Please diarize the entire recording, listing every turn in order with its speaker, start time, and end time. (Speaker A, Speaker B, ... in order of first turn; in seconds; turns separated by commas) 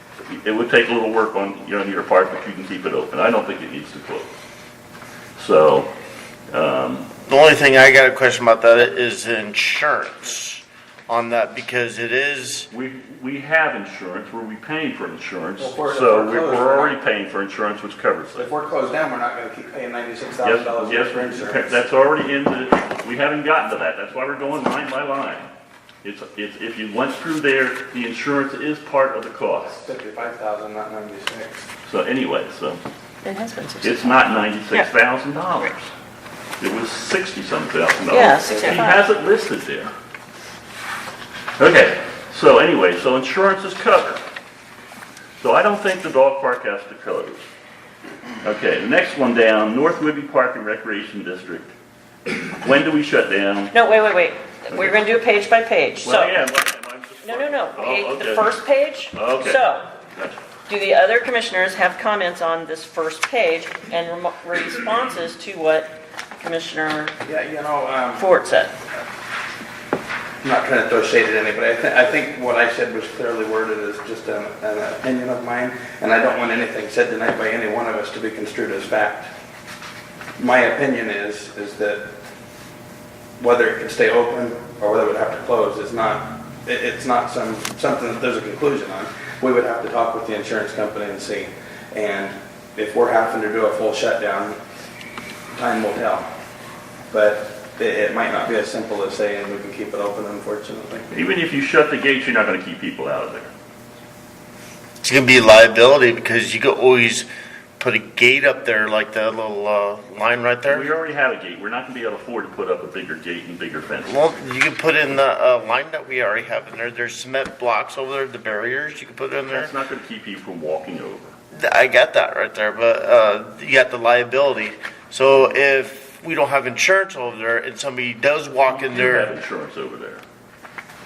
Speaker A: 0.2-4.3, Speaker A: 5.3-5.9, Speaker A: 6.5-7.1, Speaker B: 7.3-12.7, Speaker A: 12.7-18.8, Speaker C: 15.6-17.0, Speaker C: 18.3-21.8, Speaker A: 20.4-25.5, Speaker A: 26.0-29.9, Speaker C: 29.8-31.6, Speaker A: 31.8-32.8, Speaker D: 33.2-34.2, Speaker A: 33.8-35.9, Speaker A: 36.6-39.9, Speaker D: 38.1-39.0, Speaker A: 41.6-44.2, Speaker A: 45.4-47.5, Speaker A: 48.4-51.7, Speaker A: 52.4-53.7, Speaker D: 53.7-56.4, Speaker A: 56.0-60.4, Speaker D: 57.2-59.9, Speaker D: 60.7-67.2, Speaker C: 67.2-68.2, Speaker D: 68.1-68.8, Speaker C: 70.4-79.3, Speaker C: 80.4-82.1, Speaker C: 83.4-94.6, Speaker C: 95.5-96.3, Speaker C: 97.1-101.1, Speaker A: 101.1-103.5, Speaker B: 105.0-107.3, Speaker B: 107.8-110.9, Speaker A: 110.7-114.2, Speaker B: 114.0-119.7, Speaker A: 119.5-121.3, Speaker B: 121.5-129.3, Speaker A: 128.7-130.2